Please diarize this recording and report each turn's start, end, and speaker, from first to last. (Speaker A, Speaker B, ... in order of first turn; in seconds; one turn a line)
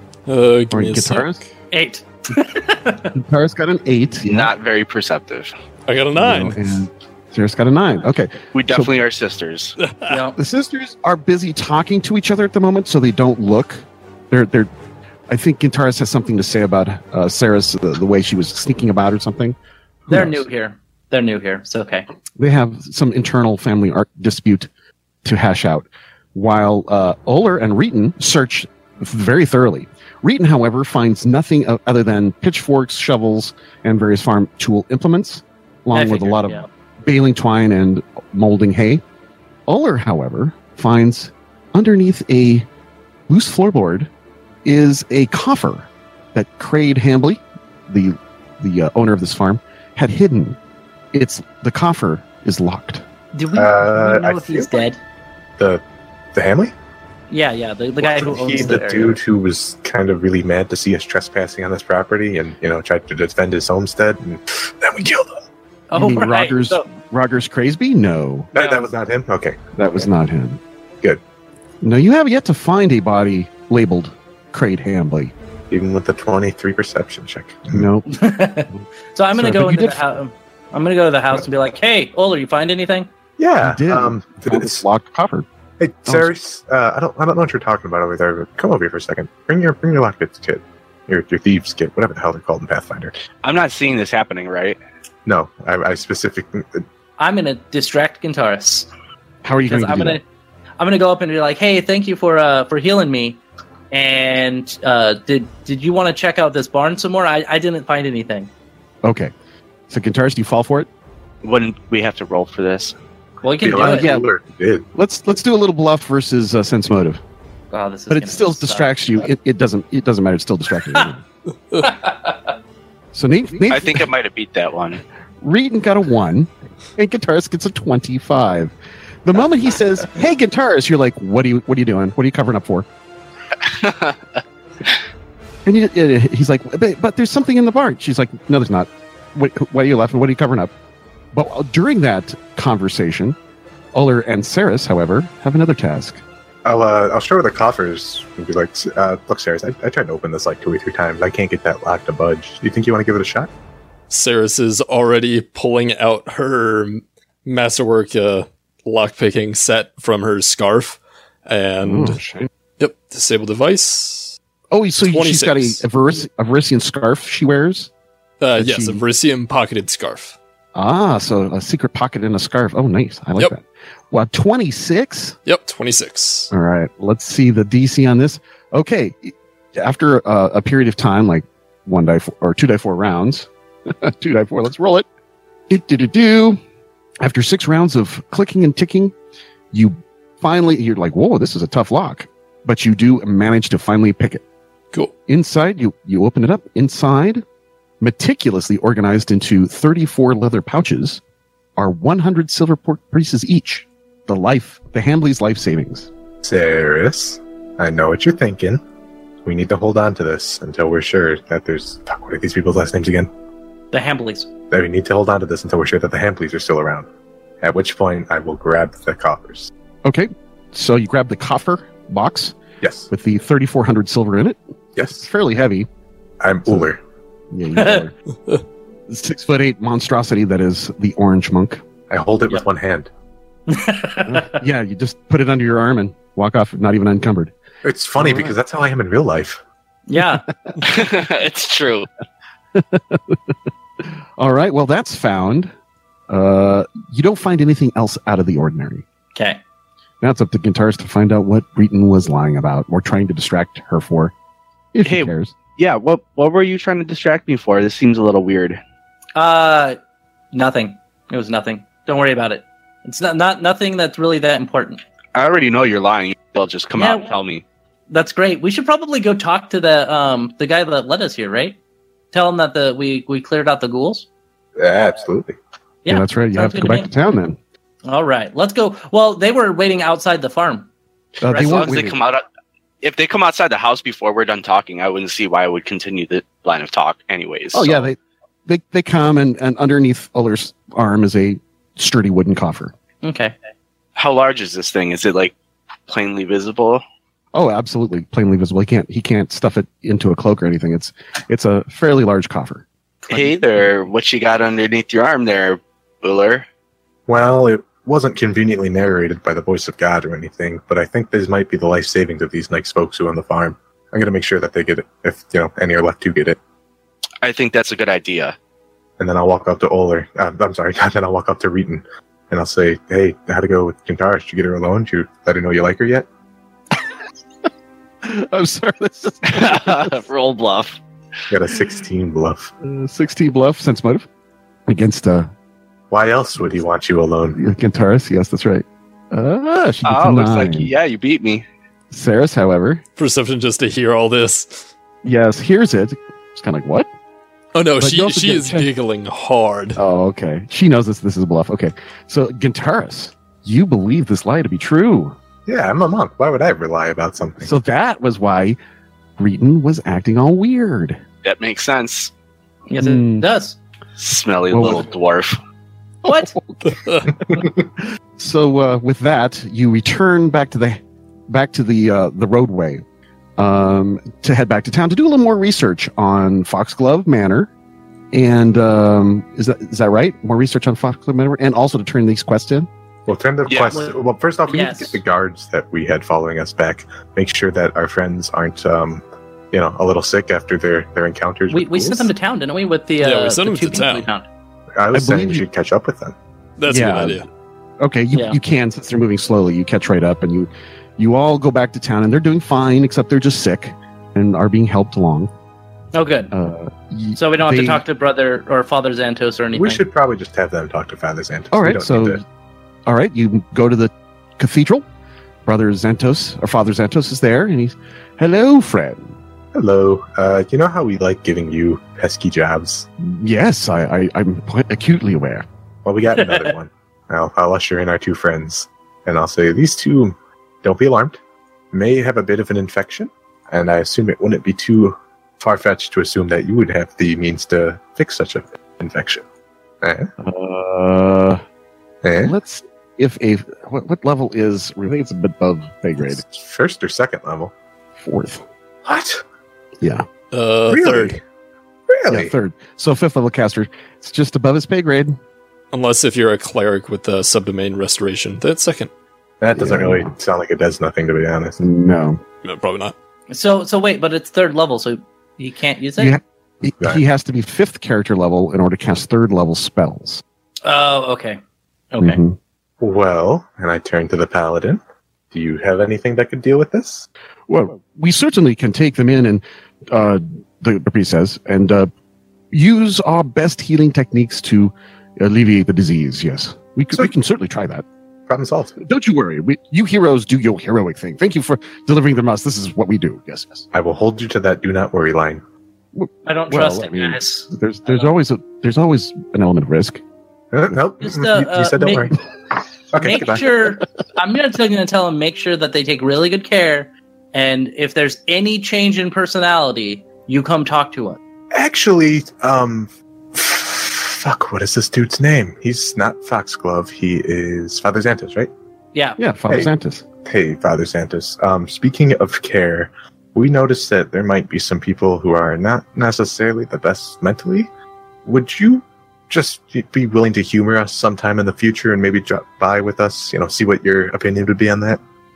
Speaker A: 0.3-1.4
Speaker B: 0.7-1.4
Speaker C: 1.7-3.1
Speaker B: 3.1-4.5
Speaker D: 4.2-5.5
Speaker A: 5.9-6.8
Speaker B: 6.2-8.9
Speaker D: 8.5-9.7
Speaker A: 9.8-10.2
Speaker C: 10.1-10.4
Speaker B: 10.3-14.7
Speaker B: 15.3-20.5
Speaker C: 20.1-22.1
Speaker B: 22.4-24.7
Speaker B: 25.2-39.0
Speaker C: 35.9-36.7
Speaker B: 39.7-42.7
Speaker B: 43.3-44.1
Speaker B: 44.6-50.6
Speaker B: 51.1-53.0
Speaker C: 53.3-55.0
Speaker E: 53.5-54.9
Speaker E: 55.6-55.8
Speaker E: 56.3-56.7
Speaker C: 57.3-59.2
Speaker E: 58.0-65.4
Speaker C: 65.9-66.9
Speaker B: 65.9-68.5
Speaker E: 68.5-69.6
Speaker C: 68.5-68.9
Speaker B: 69.7-70.6
Speaker B: 71.8-75.3
Speaker E: 75.7-77.9
Speaker B: 77.7-78.2
Speaker C: 78.1-83.1
Speaker B: 78.7-80.2
Speaker E: 83.4-84.8
Speaker B: 83.6-85.4
Speaker E: 85.8-93.2
Speaker D: 93.4-94.8
Speaker E: 95.2-96.8
Speaker C: 97.2-98.9
Speaker B: 99.4-100.2
Speaker C: 99.6-100.2
Speaker C: 100.8-103.4
Speaker C: 103.9-108.5
Speaker B: 109.0-109.3
Speaker B: 109.9-110.9
Speaker D: 111.4-112.9
Speaker C: 113.4-114.1
Speaker E: 113.6-114.9
Speaker B: 113.7-114.3
Speaker B: 114.9-117.2
Speaker C: 117.7-118.9
Speaker B: 118.1-121.2
Speaker C: 121.8-122.5
Speaker B: 123.1-124.1
Speaker D: 123.7-125.0
Speaker B: 125.4-128.7
Speaker B: 129.2-132.9
Speaker D: 133.6-134.2
Speaker B: 135.6-140.7
Speaker B: 141.3-143.3
Speaker B: 143.9-146.2
Speaker E: 146.6-153.5
Speaker A: 154.1-162.2
Speaker B: 161.8-162.5
Speaker A: 162.8-164.4
Speaker B: 164.7-167.9
Speaker A: 165.0-165.8
Speaker A: 168.4-170.4
Speaker B: 168.6-169.0
Speaker B: 170.7-175.3
Speaker A: 175.4-176.5
Speaker B: 176.5-185.1
Speaker B: 185.7-186.6
Speaker B: 187.2-189.1
Speaker B: 189.7-194.4
Speaker B: 195.3-197.4
Speaker B: 198.0-201.2
Speaker B: 201.8-206.1
Speaker E: 206.4-208.8
Speaker E: 209.4-213.3
Speaker C: 213.9-214.5
Speaker E: 214.7-217.1
Speaker E: 217.6-219.7
Speaker B: 220.0-222.6
Speaker E: 222.8-223.1
Speaker B: 223.1-224.6
Speaker E: 224.9-225.3
Speaker B: 225.2-225.9
Speaker E: 226.4-227.0
Speaker B: 227.5-228.1
Speaker C: 227.7-228.1
Speaker B: 229.1-231.8
Speaker E: 232.1-233.1
Speaker C: 233.7-234.6
Speaker B: 234.2-237.5
Speaker E: 237.8-239.6
Speaker B: 238.2-238.6
Speaker C: 240.1-240.4
Speaker B: 240.2-240.8
Speaker D: 240.8-242.1
Speaker B: 242.7-243.5
Speaker B: 244.4-245.7
Speaker B: 246.3-249.0
Speaker C: 249.3-249.6
Speaker B: 250.2-254.3
Speaker B: 254.9-255.5
Speaker D: 255.0-258.8
Speaker C: 259.4-260.0
Speaker C: 260.5-265.0
Speaker D: 265.3-267.6
Speaker C: 266.9-267.4
Speaker C: 268.1-271.8
Speaker C: 272.3-274.3
Speaker E: 274.8-275.6
Speaker C: 276.0-277.1
Speaker B: 276.1-277.6
Speaker C: 278.0-280.9
Speaker B: 281.4-282.2
Speaker D: 281.4-282.4
Speaker C: 281.5-282.0
Speaker D: 283.0-288.1
Speaker B: 287.7-292.9
Speaker C: 293.2-293.5
Speaker D: 294.1-295.5
Speaker D: 296.1-297.0
Speaker B: 297.5-302.8
Speaker D: 303.3-306.6
Speaker E: 307.3-316.6
Speaker D: 317.4-318.5
Speaker E: 319.2-326.2
Speaker B: 328.2-330.2
Speaker D: 329.4-331.0
Speaker E: 331.5-332.7
Speaker B: 332.8-334.3
Speaker B: 334.9-335.5
Speaker E: 336.1-337.6
Speaker B: 337.6-340.9
Speaker D: 340.0-341.6
Speaker B: 342.1-343.0
Speaker A: 343.2-344.9
Speaker B: 345.2-347.1
Speaker A: 347.7-350.0
Speaker B: 348.0-348.9
Speaker B: 349.9-355.4
Speaker E: 355.6-357.7
Speaker B: 357.6-358.8
Speaker B: 359.4-361.2
Speaker D: 361.4-362.3
Speaker C: 362.9-363.8
Speaker B: 363.0-363.4
Speaker D: 364.2-365.6
Speaker B: 364.7-365.1
Speaker C: 366.2-366.5
Speaker B: 366.2-367.7
Speaker A: 366.9-367.2
Speaker B: 368.4-373.0
Speaker B: 373.6-377.7
Speaker B: 378.3-382.9
Speaker E: 383.3-392.3
Speaker D: 383.7-384.0
Speaker C: 384.7-385.2
Speaker C: 391.7-394.4
Speaker A: 393.2-394.3
Speaker E: 395.0-396.3
Speaker B: 395.1-395.6
Speaker A: 396.8-397.4
Speaker B: 396.9-397.5
Speaker B: 398.0-405.5
Speaker C: 398.3-398.6
Speaker C: 406.1-406.5
Speaker B: 406.5-408.0
Speaker C: 407.4-410.0
Speaker E: 409.7-412.4
Speaker B: 411.7-412.4
Speaker B: 413.1-415.0
Speaker B: 415.6-419.4
Speaker E: 419.7-423.1
Speaker B: 423.2-425.6
Speaker E: 426.0-431.4
Speaker E: 431.9-439.4
Speaker E: 440.0-440.3
Speaker B: 440.4-441.6
Speaker E: 442.2-442.5
Speaker B: 442.4-446.4
Speaker E: 446.2-447.7
Speaker B: 448.2-448.6
Speaker E: 449.0-449.4
Speaker B: 450.0-450.3
Speaker A: 450.5-451.4
Speaker E: 450.9-451.4
Speaker E: 452.1-452.5
Speaker B: 452.3-455.4
Speaker A: 455.9-459.1
Speaker E: 459.6-461.8
Speaker B: 459.8-460.3
Speaker B: 461.8-462.4
Speaker A: 462.6-463.1
Speaker C: 463.5-466.4
Speaker B: 466.2-470.4
Speaker C: 470.8-471.6
Speaker C: 472.1-472.4
Speaker B: 472.2-472.6
Speaker E: 473.0-475.0
Speaker E: 475.5-477.3
Speaker B: 477.7-482.1
Speaker B: 482.7-488.0
Speaker E: 488.5-489.0
Speaker B: 489.0-493.9
Speaker E: 493.9-495.6
Speaker B: 496.1-500.2
Speaker C: 496.4-498.3
Speaker E: 500.7-502.4
Speaker C: 501.2-502.3
Speaker E: 503.1-503.6
Speaker C: 503.2-511.4
Speaker E: 511.7-518.7
Speaker B: 519.4-520.2
Speaker E: 520.4-527.9
Speaker E: 528.4-535.2